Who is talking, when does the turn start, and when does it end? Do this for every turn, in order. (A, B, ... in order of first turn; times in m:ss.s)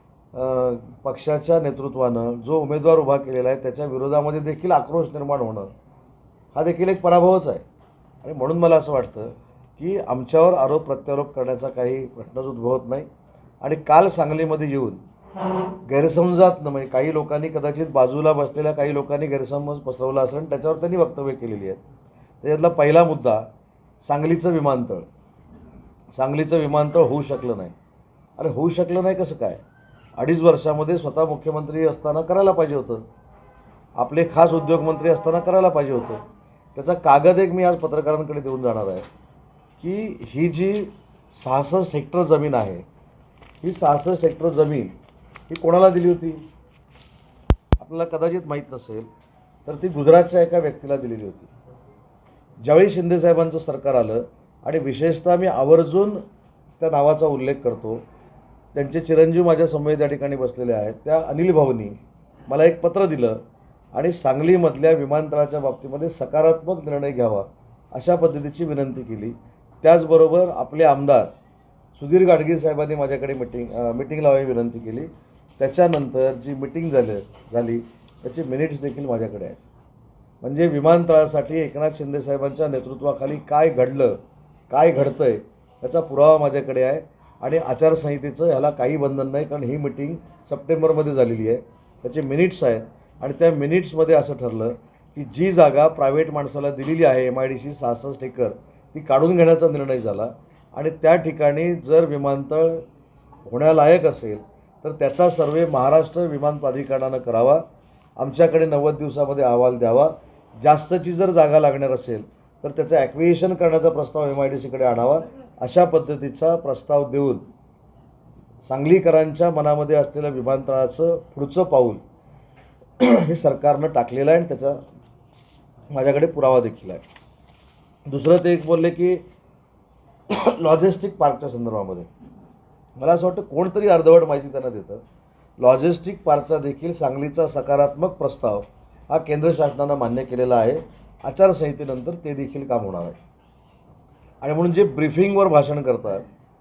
0:00.3-0:05.7 A
0:06.5-0:07.6 A
0:08.2-0:13.1 A
0:13.6-0:15.0 A
0:15.8-0:21.8 A
0:22.4-0:23.5 A
0:24.0-0:25.1 A
0:26.1-0:27.7 A
0:28.4-0:29.6 A
0:30.2-0:33.0 A
0:34.0-0:36.2 A
0:36.7-0:39.1 A
0:39.8-0:42.8 A
0:43.6-0:44.9 A
0:45.5-0:46.4 A
0:47.8-0:49.1 A
0:49.6-0:51.5 A
0:52.6-0:56.2 A
0:56.8-0:58.0 A
0:58.7-1:03.4 A
1:03.9-1:11.3 A
1:11.9-1:19.6 A
1:20.4-1:42.8 A
1:43.5-1:47.6 A
1:48.2-1:57.4 A
1:58.6-2:02.0 A
2:03.0-2:04.8 A
2:05.9-2:07.0 A
2:08.1-2:09.2 A
2:10.3-2:12.1 A
2:13.0-2:15.0 A
2:15.6-2:23.2 A
2:24.4-2:26.2 A